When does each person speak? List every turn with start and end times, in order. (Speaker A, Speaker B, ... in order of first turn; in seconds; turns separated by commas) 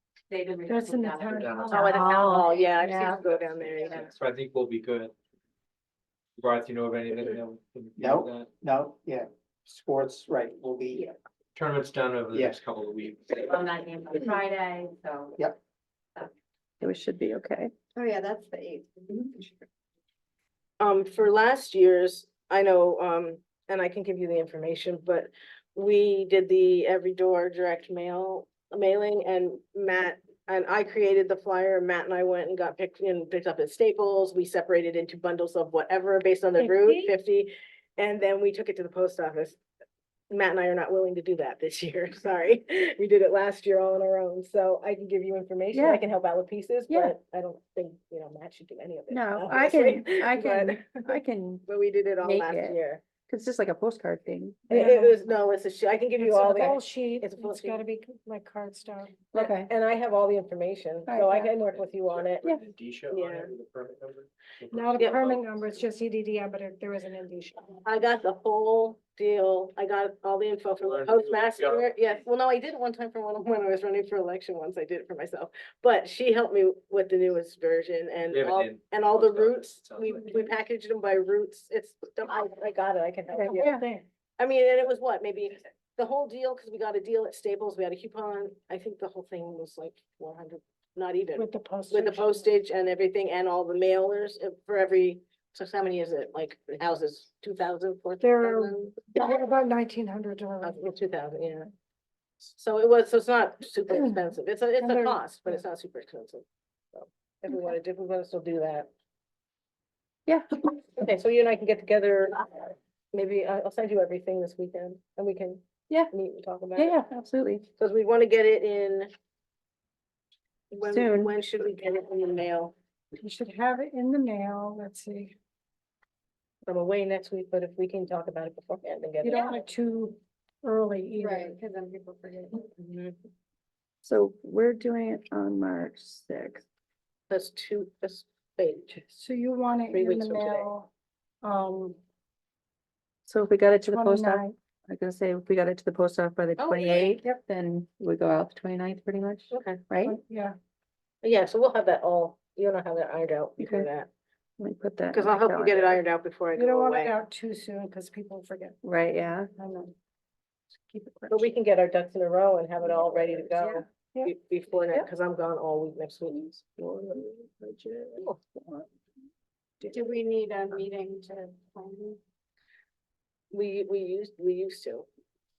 Speaker A: 0.3-2.1, Speaker B: 0.6-2.4, Speaker C: 1.4-1.8, Speaker D: 1.7-4.1, Speaker A: 3.1-4.1, Speaker C: 4.0-5.1, Speaker C: 6.4-8.5, Speaker E: 8.0-11.1, Speaker C: 11.5-13.5, Speaker E: 12.3-12.6, Speaker A: 13.4-15.4, Speaker F: 16.8-17.7, Speaker G: 17.9-19.6, Speaker D: 20.8-39.6, Speaker F: 36.6-37.1, Speaker D: 40.3-53.1, Speaker F: 45.7-46.0, Speaker F: 46.9-47.1, Speaker F: 49.1-51.6, Speaker F: 52.2-54.7, Speaker B: 54.7-55.2, Speaker D: 54.7-57.8, Speaker B: 56.2-59.2, Speaker F: 59.3-59.7, Speaker D: 59.3-62.5, Speaker F: 61.1-61.5, Speaker C: 61.6-65.8, Speaker D: 63.1-63.5, Speaker B: 64.7-67.8, Speaker D: 65.0-65.2, Speaker D: 67.8-99.0, Speaker C: 70.8-72.1, Speaker C: 78.3-80.3, Speaker F: 83.3-83.9, Speaker B: 91.3-92.5, Speaker B: 98.2-100.8, Speaker D: 100.6-101.7, Speaker D: 102.5-108.9, Speaker B: 104.8-105.6, Speaker F: 110.3-110.6, Speaker D: 110.8-117.0, Speaker F: 116.8-117.7, Speaker D: 117.8-119.1, Speaker D: 120.7-122.7, Speaker F: 120.8-121.3, Speaker B: 123.1-125.3, Speaker D: 126.6-129.5, Speaker G: 129.2-129.6, Speaker B: 129.2-131.6, Speaker G: 131.1-132.6, Speaker D: 132.7-133.2, Speaker F: 134.0-136.6, Speaker D: 137.3-139.0, Speaker B: 139.1-140.9, Speaker D: 139.9-140.7, Speaker B: 141.4-142.0, Speaker F: 143.2-150.2, Speaker B: 143.8-144.5, Speaker D: 146.6-147.2, Speaker D: 149.5-149.9, Speaker B: 150.0-150.5, Speaker D: 151.2-154.1, Speaker F: 153.6-153.9, Speaker F: 154.6-156.0, Speaker D: 155.1-157.1, Speaker B: 156.5-158.8, Speaker F: 158.8-159.5, Speaker B: 159.6-159.9, Speaker F: 160.9-161.4, Speaker D: 161.3-166.6, Speaker F: 162.8-163.8, Speaker B: 164.1-164.3, Speaker F: 166.8-168.8, Speaker G: 169.9-172.2, Speaker D: 173.5-175.1